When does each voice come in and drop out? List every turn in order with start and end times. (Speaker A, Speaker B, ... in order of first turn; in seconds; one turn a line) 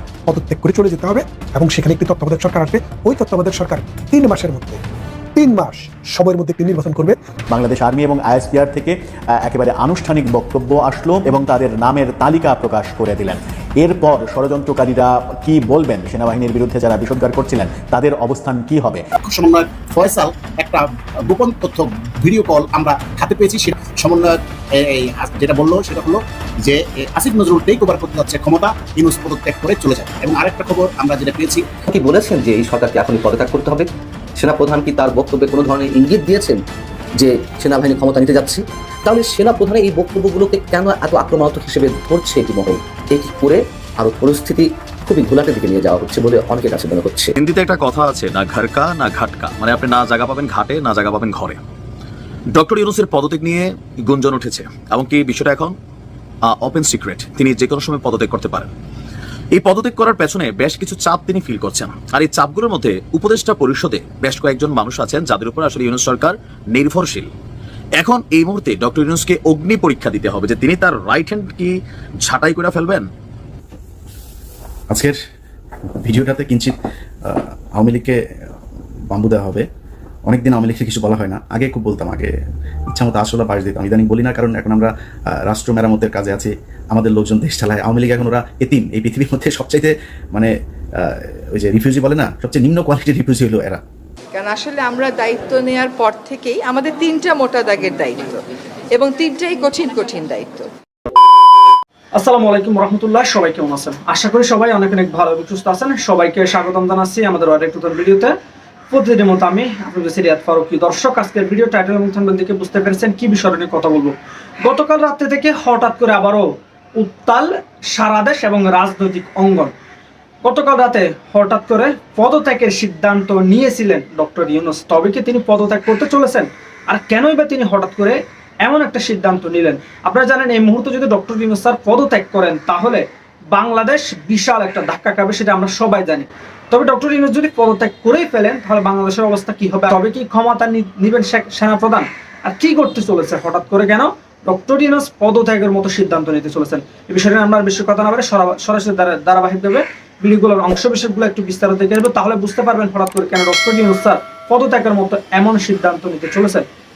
Speaker A: 0.3-4.8
Speaker A: 5.4-7.2
Speaker B: 7.5-19.1
Speaker C: 19.2-31.6
Speaker D: 31.9-36.6
Speaker D: 37.2-47.3
Speaker E: 47.4-51.6
Speaker E: 52.5-55.7
Speaker E: 56.5-58.7
Speaker E: 59.5-67.3
Speaker E: 68.0-71.7
Speaker E: 72.2-73.1
Speaker F: 74.9-75.2
Speaker F: 76.0-76.7
Speaker F: 77.2-78.2
Speaker F: 79.1-79.7
Speaker F: 80.3-82.3
Speaker F: 82.9-93.8
Speaker G: 94.3-98.3
Speaker G: 99.0-100.7
Speaker H: 102.2-108.3
Speaker H: 108.9-116.5
Speaker H: 117.0-119.7
Speaker H: 120.4-156.7